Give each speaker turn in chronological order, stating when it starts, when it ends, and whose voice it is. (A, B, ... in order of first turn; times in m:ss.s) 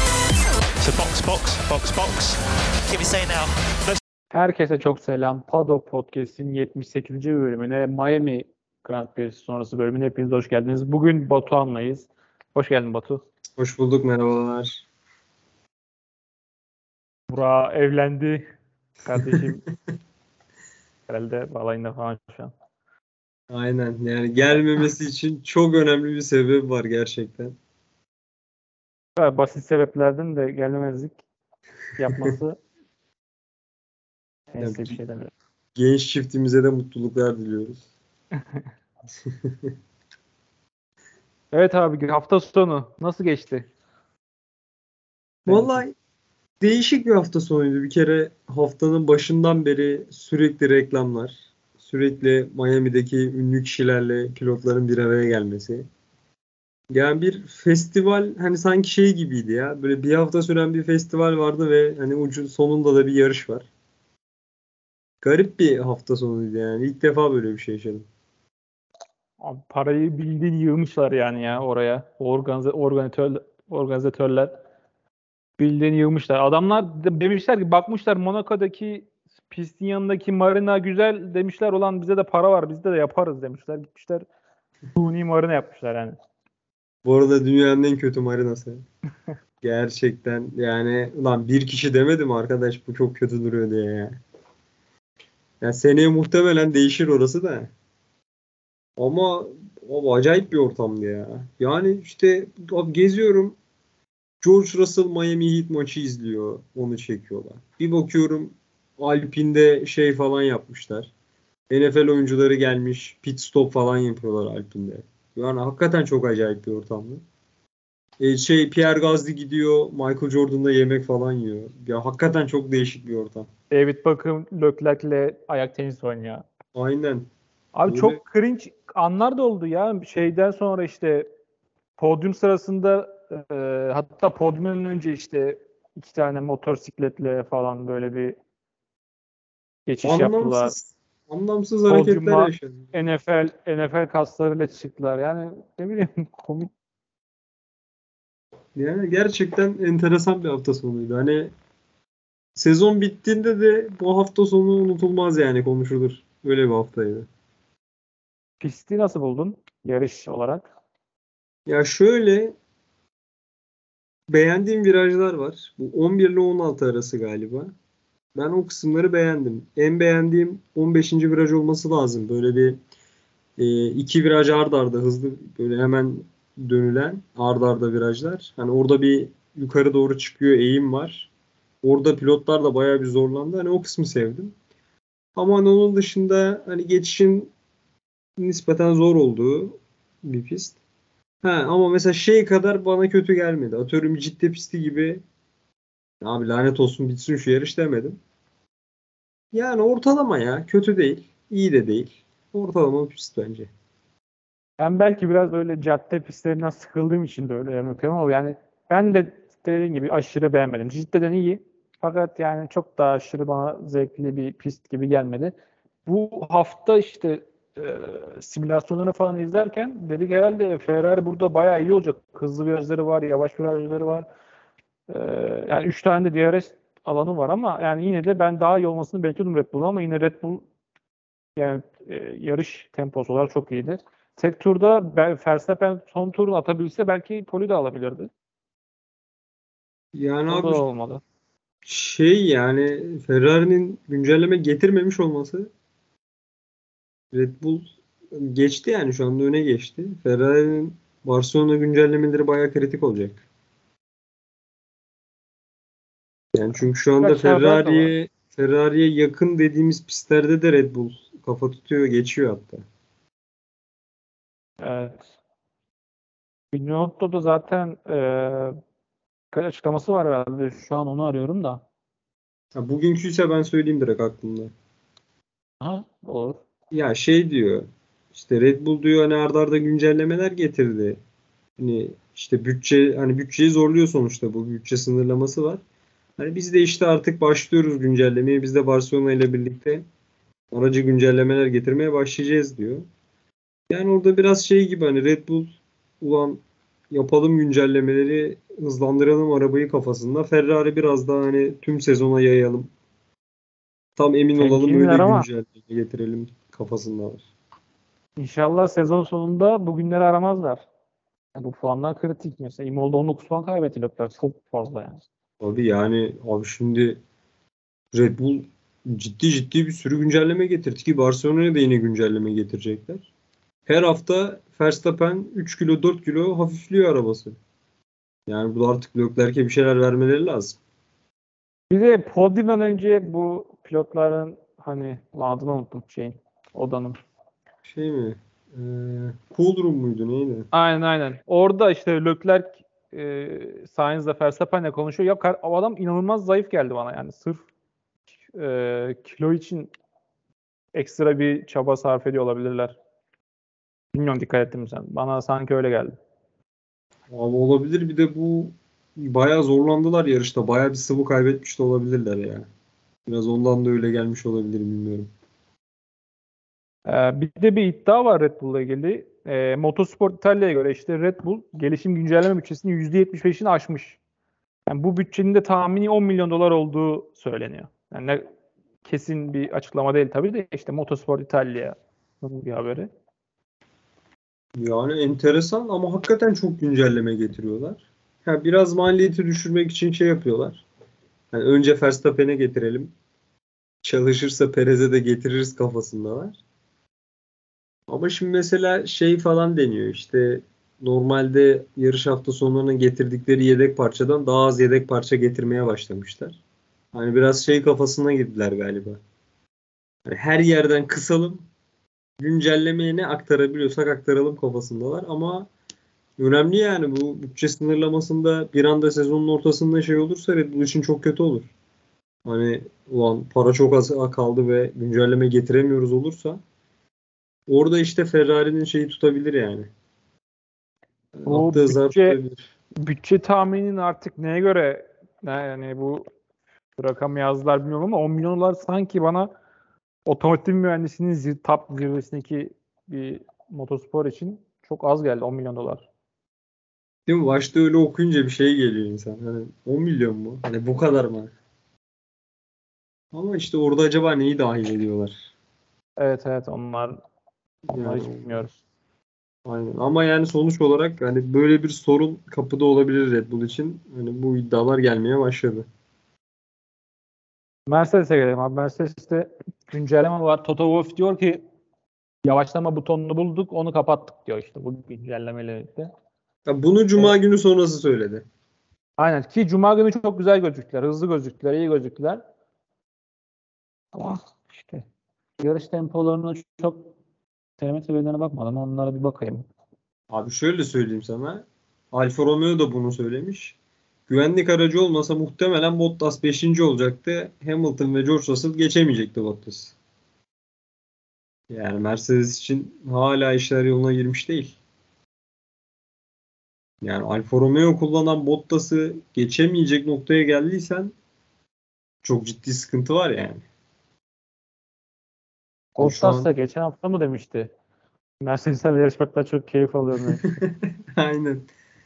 0:00.8-0:04.0 A
0:04.3-0:13.2 B
0:13.6-0:14.8 C
0:17.3-0:18.4 B
0:19.0-0:19.6 B
0:21.1-0:22.5 B
0:23.5-0:27.6 C
0:29.2-0:31.2 B
0:32.0-0:32.6 B
0:32.1-0:32.3 C
0:34.5-0:35.3 B
0:34.6-0:35.0 C
0:35.8-0:37.9 C
0:39.2-0:39.7 C
0:41.5-0:43.7 B
0:45.5-0:45.8 B
0:45.5-0:45.9 C
0:46.6-0:55.9 C
0:56.9-1:03.7 C
1:05.2-1:08.1 C
1:09.4-1:14.5 B
1:15.6-1:24.3 B
1:25.0-1:26.2 B
1:27.0-1:28.8 C
1:29.6-1:34.2 C
1:35.6-1:37.7 C
1:39.0-1:43.6 C
1:44.4-1:51.1 C
1:51.7-1:57.2 C
1:58.2-2:03.5 C
2:03.7-2:06.4 B
2:06.8-2:07.3 C
2:07.8-2:11.3 B
2:07.8-2:08.2 C
2:12.0-2:18.4 B
2:19.9-2:20.8 B
2:20.0-2:22.9 C
2:21.9-2:26.7 B
2:28.8-2:31.5 C
2:32.6-2:37.3 C
2:38.6-2:40.7 B
2:41.7-2:42.6 C
2:44.3-2:47.7 C
2:48.3-2:52.8 C
2:53.6-3:01.3 C
3:01.8-3:04.6 C
3:05.4-3:07.5 C
3:08.4-3:10.8 C
3:11.4-3:15.2 C
3:16.2-3:18.2 C
3:19.5-3:23.7 C
3:24.8-3:35.5 B
3:36.1-3:44.2 B
3:45.1-3:50.7 B
3:51.6-3:58.3 B
4:00.1-4:00.8 C
4:00.5-4:01.2 B
4:01.8-4:05.7 C
4:07.3-4:13.4 C
4:16.5-4:22.8 C
4:17.2-4:18.1 B
4:24.8-4:25.2 B
4:26.7-4:28.7 B
4:29.5-4:31.8 B
4:32.7-4:34.7 C
4:35.8-4:36.6 B
4:36.9-4:41.2 C
4:41.8-4:45.8 C
4:46.4-4:50.0 C
4:50.7-4:53.0 C
4:53.9-5:02.9 C
5:04.2-5:07.5 C
5:04.6-5:05.5 B
5:08.4-5:10.8 B
5:11.5-5:15.2 B
5:15.6-5:17.2 C
5:18.1-5:23.3 C
5:23.8-5:27.6 C
5:28.5-5:30.8 C
5:31.9-5:37.2 B
5:37.8-5:40.7 C
5:40.7-5:47.6 B
5:48.5-5:49.9 B
5:50.9-5:53.0 B
5:54.1-5:56.1 B
5:57.3-6:02.7 C
6:03.3-6:05.3 C
6:07.0-6:14.2 B
6:14.9-6:18.4 B
6:19.0-6:23.1 B
6:24.8-6:30.8 C
6:31.5-6:33.1 C
6:34.0-6:36.6 C
6:38.1-6:46.6 C
6:47.1-6:49.2 C
6:50.2-6:51.6 C
6:52.4-6:55.7 C
6:56.4-7:01.7 C
7:02.4-7:06.6 C
7:07.7-7:09.9 C
7:11.4-7:12.6 C
7:11.5-7:12.4 B
7:13.0-7:16.2 B
7:17.0-7:19.5 B
7:20.2-7:26.1 B
7:27.3-7:31.5 C
7:33.3-7:35.5 C
7:36.2-7:37.2 B
7:37.9-7:38.5 C
7:37.9-7:38.8 B
7:39.6-7:45.8 C
7:47.9-7:51.6 B
7:52.4-7:56.1 B
7:56.6-7:58.4 C
7:59.2-8:02.4 B
8:04.1-8:05.0 B
8:05.6-8:07.1 B
8:07.8-8:09.6 B
8:10.3-8:13.8 C
8:14.3-8:20.0 C
8:21.7-8:24.8 C
8:27.0-8:31.1 C
8:32.2-8:33.6 C
8:36.0-8:36.5 C
8:36.0-8:37.7 B
8:38.4-8:40.4 B
8:40.4-8:41.7 C